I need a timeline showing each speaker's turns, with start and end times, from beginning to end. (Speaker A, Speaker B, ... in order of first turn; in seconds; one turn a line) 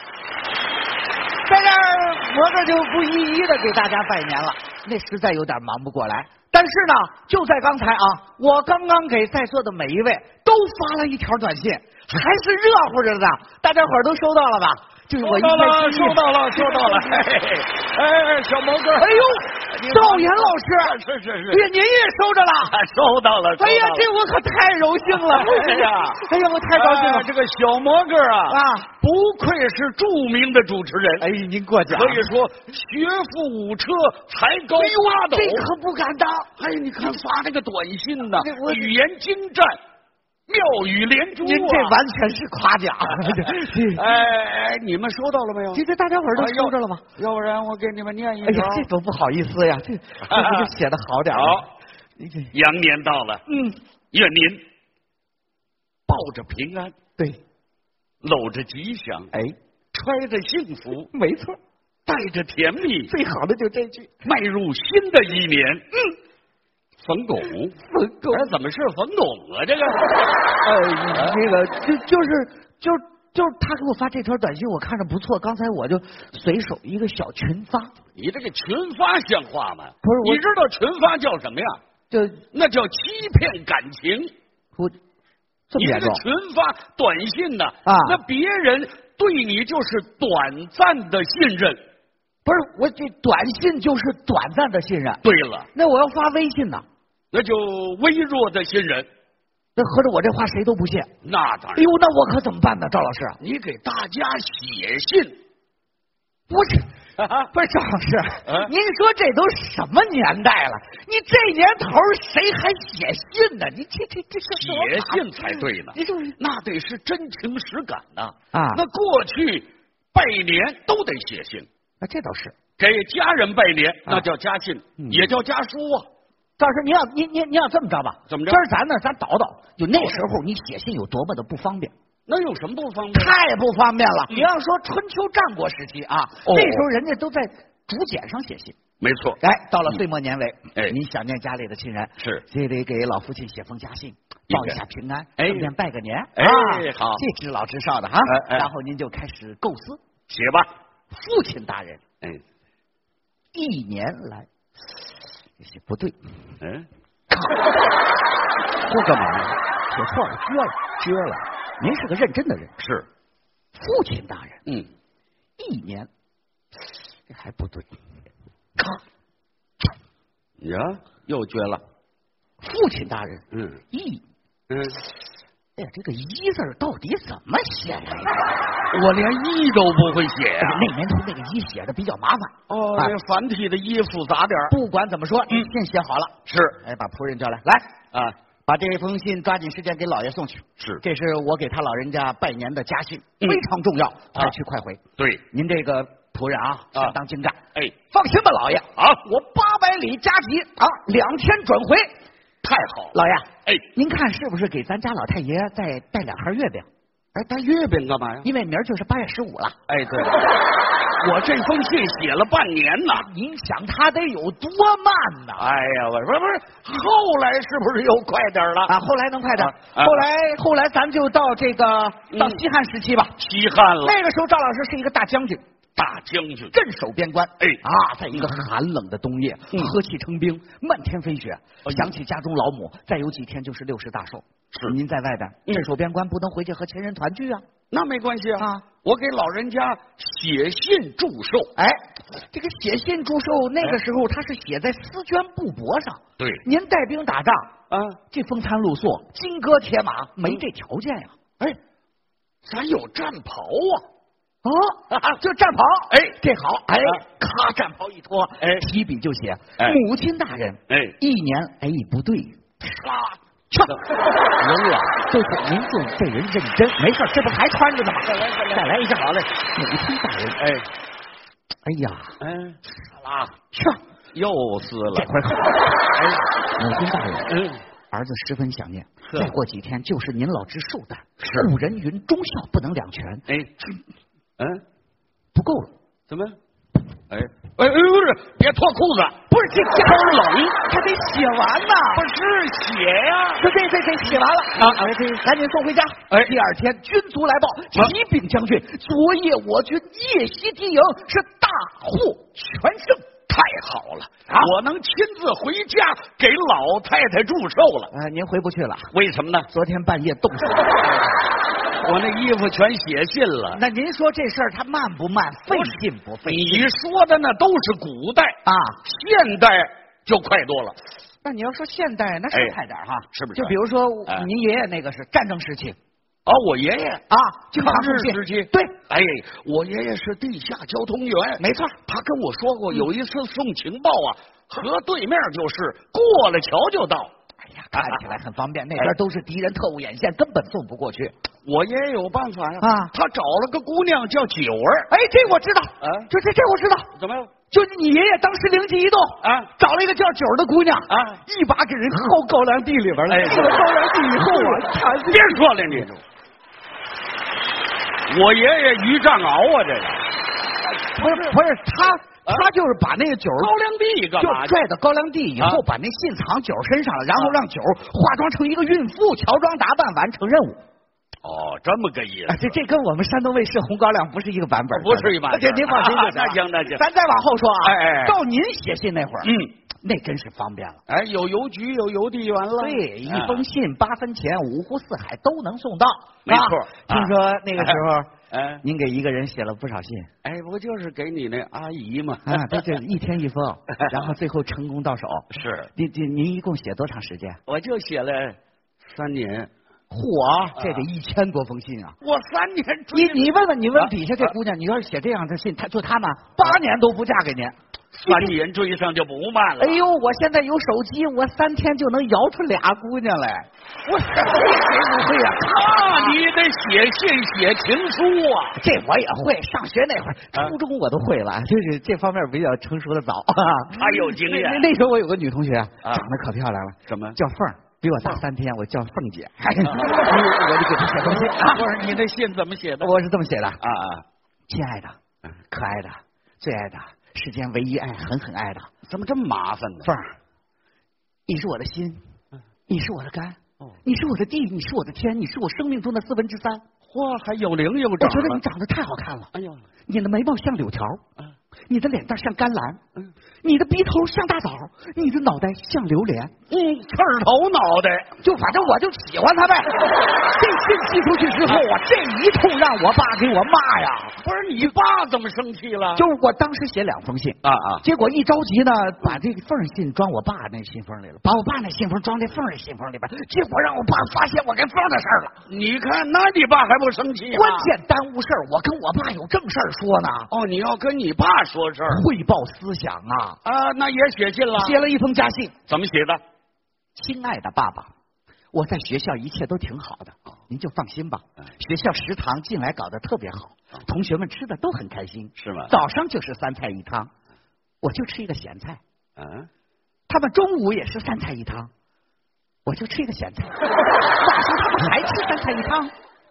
Speaker A: 1.4-17.3
Speaker B: 15.2-21.6
Speaker A: 19.0-20.9
Speaker A: 21.5-22.8
Speaker B: 22.6-24.1
Speaker A: 23.6-27.3
Speaker B: 25.1-26.2
Speaker B: 26.7-31.2
Speaker A: 28.5-28.9
Speaker A: 31.2-32.2
Speaker B: 31.9-35.7
Speaker A: 34.8-36.5
Speaker B: 36.5-39.8
Speaker A: 38.4-38.9
Speaker B: 40.5-42.0
Speaker A: 41.4-44.0
Speaker B: 43.9-48.9
Speaker A: 45.7-47.0
Speaker A: 48.5-51.7
Speaker B: 50.3-50.7
Speaker B: 51.3-51.7
Speaker A: 52.2-52.5
Speaker B: 52.5-53.4
Speaker A: 53.5-53.8
Speaker B: 54.1-54.6
Speaker B: 56.1-57.0
Speaker B: 58.2-59.3
Speaker B: 59.9-61.1
Speaker A: 61.1-61.6
Speaker B: 62.0-63.1
Speaker A: 63.1-64.1
Speaker B: 64.2-65.8
Speaker B: 67.0-67.8
Speaker A: 67.9-68.5
Speaker B: 68.3-70.2
Speaker A: 70.6-77.9
Speaker B: 71.1-71.4
Speaker B: 78.1-81.8
Speaker A: 80.0-80.4
Speaker A: 82.1-82.4
Speaker B: 82.5-84.3
Speaker A: 85.7-86.2
Speaker B: 85.8-91.8
Speaker A: 87.9-88.2
Speaker A: 92.4-95.2
Speaker B: 95.2-95.7
Speaker A: 95.7-96.8
Speaker B: 97.3-99.1
Speaker A: 99.8-101.1
Speaker B: 101.2-101.9
Speaker A: 101.8-103.4
Speaker B: 103.4-105.4
Speaker A: 106.5-106.9
Speaker B: 107.2-107.5
Speaker A: 107.5-116.4
Speaker B: 108.5-108.7
Speaker B: 114.5-121.7
Speaker A: 118.5-118.8
Speaker A: 122.0-122.5
Speaker B: 122.8-126.1
Speaker A: 125.0-125.3
Speaker A: 126.6-131.9
Speaker B: 128.3-128.6
Speaker B: 129.9-130.2
Speaker B: 132.3-133.3
Speaker A: 133.1-138.8
Speaker B: 136.4-136.8
Speaker B: 139.0-139.4
Speaker A: 139.4-150.0
Speaker B: 142.2-142.4
Speaker B: 144.5-144.8
Speaker B: 145.4-145.7
Speaker B: 146.3-147.2
Speaker B: 148.2-148.7
Speaker B: 150.3-150.7
Speaker A: 151.1-152.0
Speaker A: 153.5-154.5
Speaker A: 155.6-156.2
Speaker B: 156.6-156.9
Speaker A: 157.3-157.8
Speaker A: 158.9-160.9
Speaker B: 158.9-159.3
Speaker B: 161.0-161.4
Speaker A: 161.8-162.7
Speaker B: 162.8-163.1
Speaker A: 163.8-164.6
Speaker A: 165.6-166.1
Speaker A: 167.3-167.9
Speaker B: 170.6-171.8
Speaker A: 172.6-174.2
Speaker B: 173.5-173.8
Speaker B: 174.7-175.0
Speaker A: 175.8-178.5
Speaker B: 178.9-180.9
Speaker A: 180.6-183.2
Speaker B: 182.7-184.8
Speaker A: 184.7-187.9
Speaker B: 186.4-186.8
Speaker A: 188.7-195.0
Speaker B: 195.2-195.4
Speaker A: 195.5-197.6
Speaker A: 198.1-202.1
Speaker B: 198.9-199.2
Speaker B: 202.6-203.8
Speaker A: 203.1-206.8
Speaker B: 207.3-208.5
Speaker A: 208.4-209.8
Speaker B: 209.9-210.7
Speaker B: 211.2-213.3
Speaker A: 213.1-215.7
Speaker B: 215.6-218.9
Speaker A: 218.9-223.4
Speaker B: 219.6-220.2
Speaker B: 222.3-222.6
Speaker B: 223.4-224.1
Speaker A: 224.0-225.6
Speaker B: 226.0-226.7
Speaker A: 226.7-237.6
Speaker B: 231.8-232.1
Speaker B: 237.9-241.7
Speaker A: 238.6-238.8
Speaker A: 241.8-247.7
Speaker B: 247.9-248.2
Speaker A: 248.3-251.3
Speaker B: 252.6-254.1
Speaker A: 254.6-262.6
Speaker B: 256.1-256.4
Speaker B: 258.6-258.8
Speaker B: 260.9-261.1
Speaker B: 263.0-263.3
Speaker A: 263.7-270.6
Speaker B: 268.2-269.4
Speaker B: 270.6-270.9
Speaker A: 271.8-272.4
Speaker B: 272.4-273.5
Speaker A: 273.7-274.0
Speaker B: 274.3-275.3
Speaker A: 275.1-276.0
Speaker B: 276.1-276.4
Speaker A: 276.8-277.6
Speaker B: 277.5-277.8
Speaker A: 278.1-283.9
Speaker B: 281.4-281.7
Speaker B: 284.6-284.8
Speaker A: 285.5-285.9
Speaker B: 286.3-286.6
Speaker B: 287.3-290.8
Speaker A: 289.5-292.2
Speaker B: 292.1-293.6
Speaker A: 293.6-303.3
Speaker B: 294.8-295.0
Speaker B: 296.3-296.6
Speaker B: 303.5-308.1
Speaker A: 304.5-304.7
Speaker A: 308.1-309.1
Speaker B: 309.1-309.7
Speaker A: 309.7-311.4
Speaker B: 312.0-313.8
Speaker A: 313.7-316.9
Speaker B: 315.7-321.0
Speaker A: 318.6-319.0
Speaker A: 321.4-325.9
Speaker B: 322.5-322.8
Speaker B: 323.3-324.4
Speaker B: 326.4-337.3
Speaker A: 327.3-328.9
Speaker A: 331.6-331.9
Speaker A: 337.6-341.3
Speaker B: 337.9-338.2
Speaker B: 341.6-345.1
Speaker A: 342.8-343.1
Speaker A: 345.1-347.1
Speaker B: 346.0-346.3
Speaker B: 347.1-347.5
Speaker A: 347.7-356.0
Speaker B: 349.4-349.7
Speaker B: 351.1-351.4
Speaker B: 353.3-356.2
Speaker B: 358.3-360.2
Speaker B: 361.0-361.6
Speaker A: 361.1-363.7
Speaker B: 363.6-364.8
Speaker A: 364.4-370.8
Speaker B: 371.4-372.7
Speaker A: 372.5-381.0
Speaker B: 374.9-377.0
Speaker B: 377.8-378.4
Speaker B: 379.4-379.7
Speaker B: 381.1-383.6
Speaker A: 382.8-388.3
Speaker B: 386.4-388.0
Speaker B: 388.5-388.8
Speaker A: 388.8-390.3
Speaker B: 390.4-392.8
Speaker A: 392.4-397.6
Speaker B: 395.5-395.9
Speaker B: 397.6-399.7
Speaker A: 400.1-402.2
Speaker B: 400.8-401.1
Speaker B: 402.2-404.5
Speaker A: 403.1-407.8
Speaker B: 408.1-410.0
Speaker A: 408.2-408.6
Speaker A: 409.8-416.4
Speaker B: 415.6-418.8
Speaker A: 418.8-431.9
Speaker B: 423.9-424.9
Speaker B: 427.1-427.4
Speaker B: 429.8-430.4
Speaker B: 431.2-433.1
Speaker A: 433.0-433.8
Speaker B: 433.8-434.2
Speaker A: 434.7-435.2
Speaker A: 435.7-438.9
Speaker B: 439.1-440.1
Speaker A: 441.5-442.2
Speaker A: 442.9-446.8
Speaker B: 447.1-448.6
Speaker A: 448.2-449.5
Speaker B: 449.5-449.8
Speaker A: 450.1-451.2
Speaker A: 451.9-453.0
Speaker A: 453.6-456.5
Speaker B: 456.7-458.4
Speaker A: 458.4-464.4
Speaker B: 464.4-466.3
Speaker A: 466.1-475.6
Speaker B: 467.6-468.1
Speaker B: 475.6-477.9
Speaker A: 477.5-480.5
Speaker B: 480.5-482.2
Speaker A: 482.1-483.6
Speaker B: 483.6-485.0
Speaker A: 484.8-485.8
Speaker B: 485.9-486.4
Speaker A: 487.1-488.1
Speaker A: 488.7-497.3
Speaker B: 495.6-495.9
Speaker A: 498.0-499.0
Speaker B: 499.4-499.7
Speaker A: 500.3-501.9
Speaker A: 502.9-506.1